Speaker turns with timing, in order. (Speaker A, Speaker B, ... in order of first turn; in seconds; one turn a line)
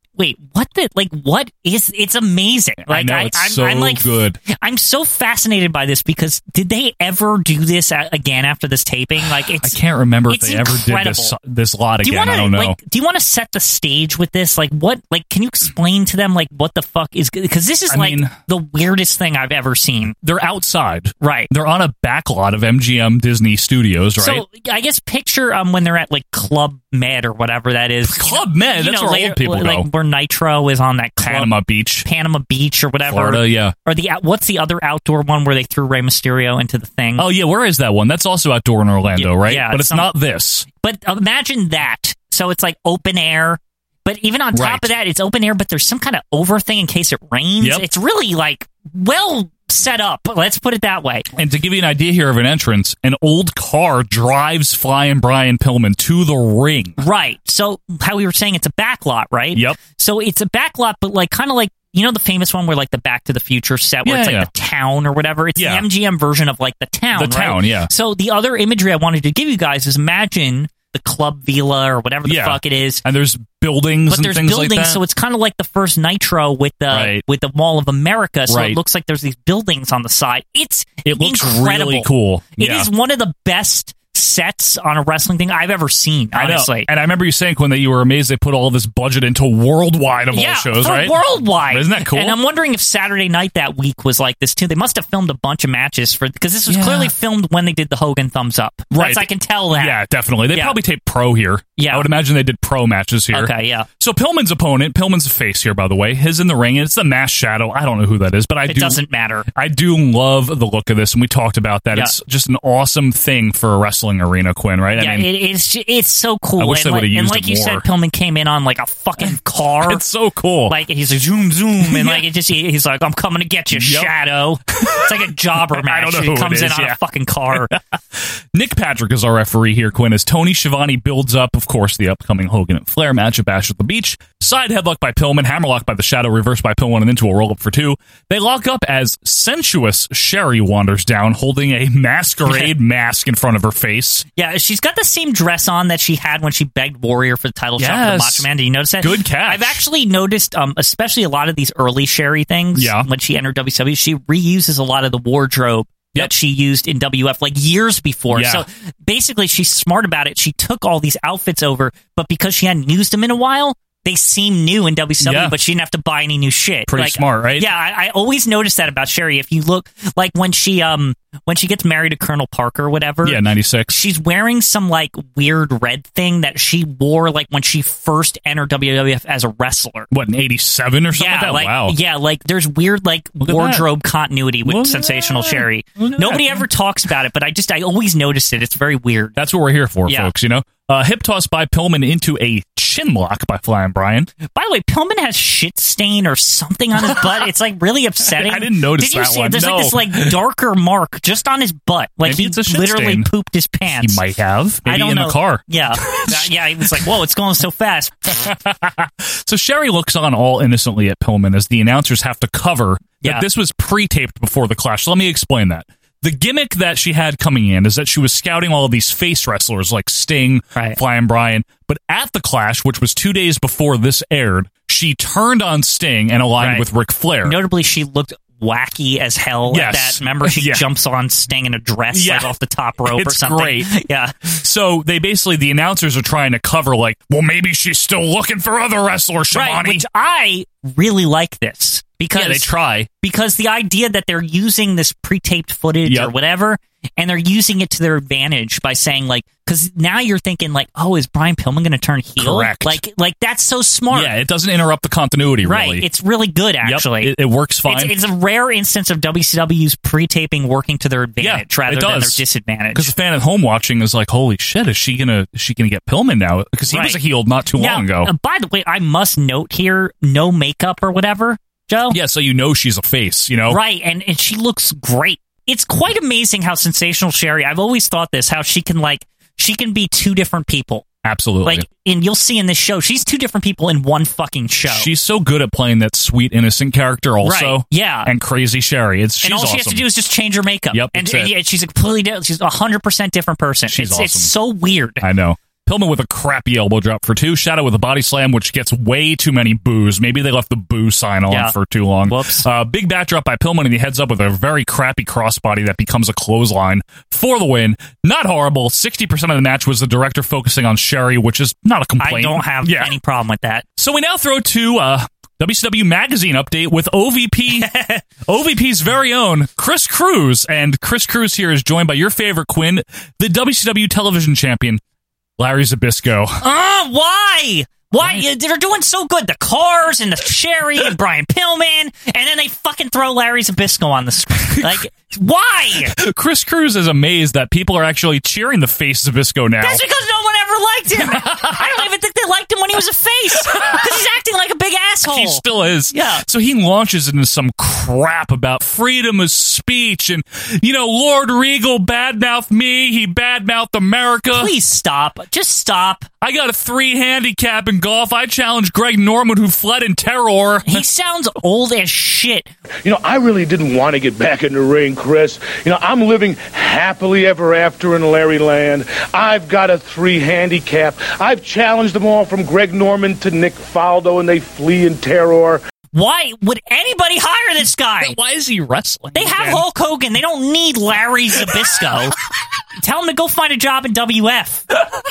Speaker A: 0.2-9.8
Speaker B: 2.9-4.4
Speaker B: 9.6-12.8
Speaker A: 10.3-11.3
Speaker A: 12.0-20.1
Speaker B: 17.9-18.4
Speaker B: 20.2-24.4
Speaker A: 21.2-21.5
Speaker A: 24.2-31.5
Speaker B: 28.1-29.9
Speaker B: 31.2-32.1
Speaker A: 32.0-37.3
Speaker B: 33.1-33.8
Speaker B: 37.2-40.7
Speaker A: 39.2-40.1
Speaker A: 40.8-51.3
Speaker B: 44.5-44.9
Speaker B: 51.4-57.0
Speaker A: 57.0-73.0
Speaker B: 64.0-64.5
Speaker B: 65.6-65.9
Speaker B: 67.2-67.9
Speaker B: 72.2-75.0
Speaker A: 74.1-86.9
Speaker B: 76.9-77.2
Speaker B: 78.5-78.8
Speaker B: 81.0-82.9
Speaker B: 86.3-92.4
Speaker A: 90.3-100.0
Speaker B: 96.7-97.1
Speaker B: 98.9-109.0
Speaker A: 101.8-102.1
Speaker A: 103.3-103.9
Speaker A: 108.7-109.5
Speaker B: 109.5-115.3
Speaker A: 115.0-120.0
Speaker B: 116.6-117.8
Speaker B: 119.2-120.8
Speaker A: 120.7-127.7
Speaker B: 121.8-122.2
Speaker B: 123.7-124.1
Speaker B: 124.8-127.0
Speaker B: 127.5-144.3
Speaker A: 142.5-142.7
Speaker A: 144.4-180.1
Speaker B: 147.8-148.5
Speaker B: 149.0-149.8
Speaker B: 152.8-153.1
Speaker B: 158.3-158.6
Speaker B: 165.2-165.6
Speaker B: 166.9-167.7
Speaker B: 173.2-174.0
Speaker B: 180.1-182.0
Speaker A: 181.2-189.4
Speaker B: 183.5-183.9
Speaker B: 184.7-186.7
Speaker B: 189.4-194.3
Speaker A: 194.5-204.2
Speaker B: 198.3-200.4
Speaker B: 202.2-203.3
Speaker B: 203.9-207.1
Speaker A: 204.9-208.5
Speaker B: 208.4-227.6
Speaker A: 226.6-226.8
Speaker A: 227.4-234.3
Speaker B: 229.7-230.8
Speaker B: 232.1-232.5
Speaker B: 233.1-233.9
Speaker B: 234.6-240.1
Speaker A: 239.5-242.7
Speaker B: 242.3-243.1
Speaker A: 243.2-254.3
Speaker B: 246.1-246.3
Speaker B: 252.4-253.0
Speaker B: 254.1-256.1
Speaker A: 255.6-257.3
Speaker B: 256.8-258.2
Speaker A: 257.9-263.1
Speaker B: 261.4-262.4
Speaker B: 262.9-268.3
Speaker A: 266.9-267.2
Speaker A: 267.8-272.2
Speaker B: 272.1-273.8
Speaker A: 273.7-281.1
Speaker B: 281.2-281.9
Speaker A: 281.6-285.1
Speaker B: 284.9-290.1
Speaker A: 287.4-288.3
Speaker A: 289.4-295.2
Speaker B: 290.9-291.5
Speaker B: 293.9-294.5
Speaker B: 295.2-313.1
Speaker A: 302.3-302.7
Speaker A: 312.2-313.9
Speaker B: 314.0-317.9
Speaker A: 317.8-318.2
Speaker B: 318.4-325.0
Speaker B: 325.6-326.6
Speaker A: 326.6-336.1
Speaker B: 328.2-328.4
Speaker B: 334.7-335.0
Speaker B: 336.0-340.0
Speaker A: 339.8-346.4
Speaker B: 341.3-341.8
Speaker B: 345.3-354.7
Speaker A: 354.5-356.3
Speaker B: 356.4-361.0
Speaker A: 360.9-362.7
Speaker C: 363.1-375.8
Speaker A: 376.1-378.4
Speaker B: 378.2-379.8
Speaker A: 379.3-382.4
Speaker A: 383.0-384.9